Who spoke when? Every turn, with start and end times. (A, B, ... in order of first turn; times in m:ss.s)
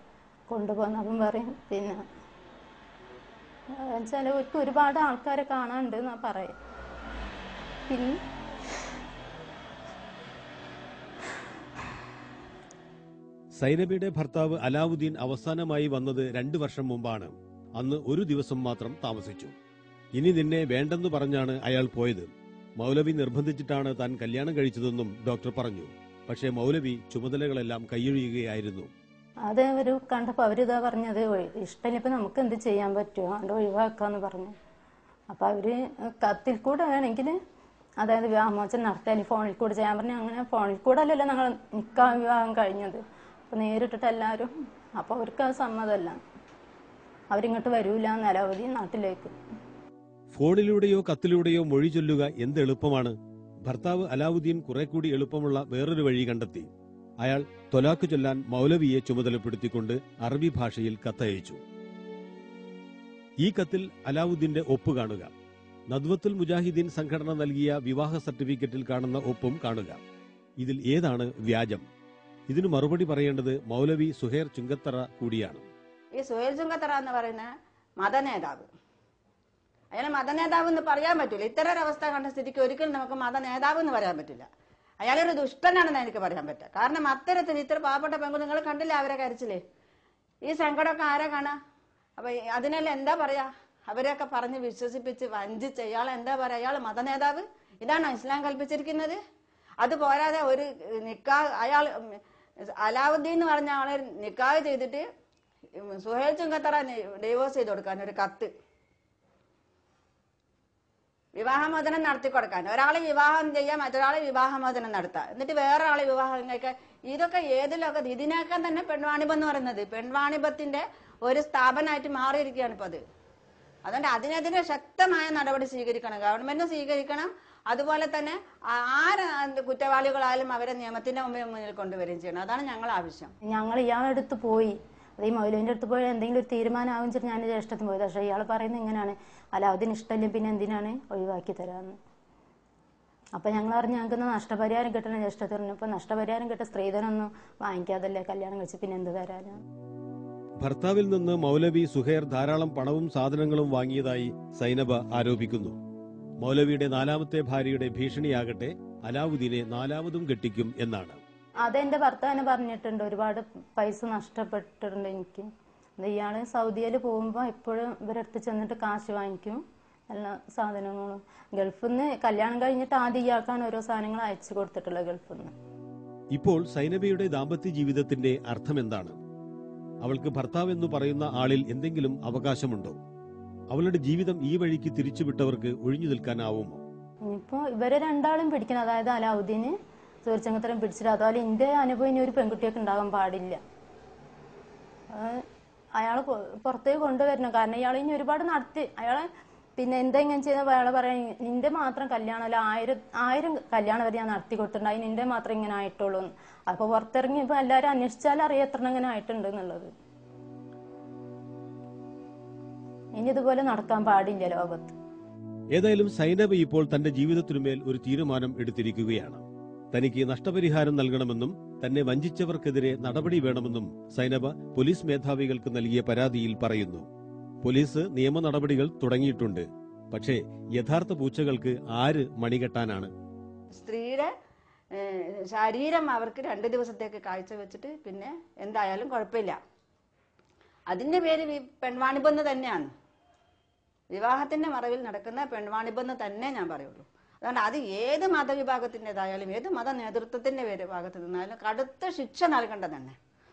0:00.5-0:02.0 A
0:03.7-0:06.5 A
0:07.9-0:08.2 A
0:13.6-0:19.5 B
0:20.1-0:28.9 B
0:29.5-0:34.5 A
0:35.3-0:37.4 A
0:38.0-0:46.2 A
0:47.3-0:49.3 A
0:50.3-0:56.7 B
0:57.2-1:01.6 B
1:03.4-1:05.3 B
1:05.9-1:10.0 B
1:10.6-1:11.8 B
1:12.5-1:15.7 B
1:16.1-1:17.5 C
1:18.0-1:18.7 C
1:19.9-1:24.5 C
1:25.0-1:29.6 C
1:30.4-1:31.6 C
1:32.2-1:39.2 C
1:39.8-1:42.2 C
1:42.8-1:45.0 C
1:45.8-1:48.5 C
1:51.4-2:03.0 C
2:03.8-2:13.3 C
2:13.5-2:22.0 A
2:23.4-2:29.6 A
2:30.6-2:35.7 B
2:36.4-2:41.2 B
2:41.6-2:45.5 A
2:46.0-2:55.5 A
2:56.3-2:59.2 B
3:00.0-3:03.0 B
3:03.7-3:06.8 B
3:07.2-3:13.6 A
3:15.1-3:15.4 A
3:16.0-3:29.9 A
3:33.2-3:34.9 A
3:35.7-3:47.1 B
3:47.6-3:53.1 B
3:53.7-3:54.3 C
3:54.9-3:59.6 C
4:00.9-4:02.9 C
4:04.1-4:13.2 C